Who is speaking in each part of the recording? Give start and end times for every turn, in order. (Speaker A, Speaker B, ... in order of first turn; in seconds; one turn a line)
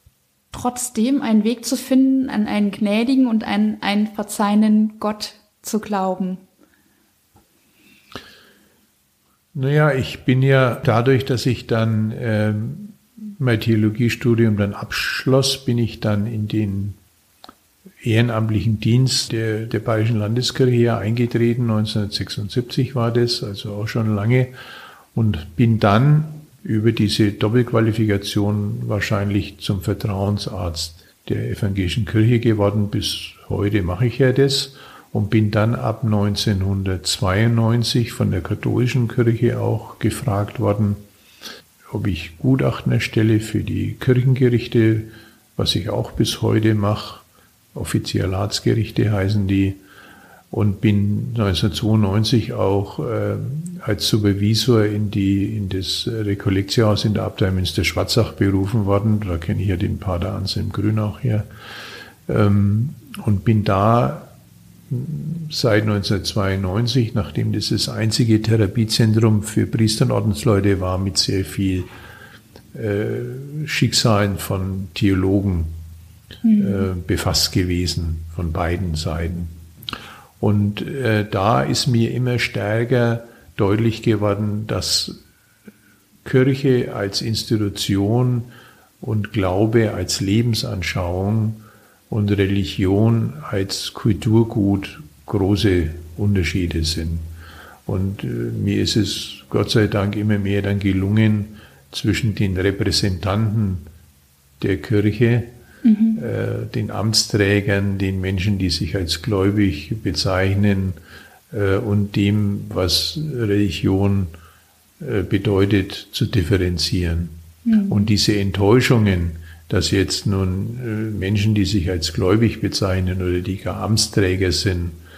Speaker A: 0.5-6.4
Speaker B: 9.5-17.0
Speaker B: 18.0-24.5
Speaker B: 25.1-41.0
Speaker B: 41.9-49.8
Speaker B: 50.5-61.5
Speaker B: 62.3-64.3
Speaker B: 64.9-71.9
Speaker B: 72.7-75.7
Speaker A: 76.4-76.9
Speaker B: 76.6-79.5
Speaker B: 80.4-85.2
Speaker B: 86.2-97.3
Speaker B: 97.8-103.8
Speaker B: 104.6-105.5
Speaker A: 105.8-106.2
Speaker B: 106.2-111.0
Speaker B: 111.5-114.3
Speaker B: 115.0-117.3
Speaker A: 117.6-118.0
Speaker B: 117.9-125.0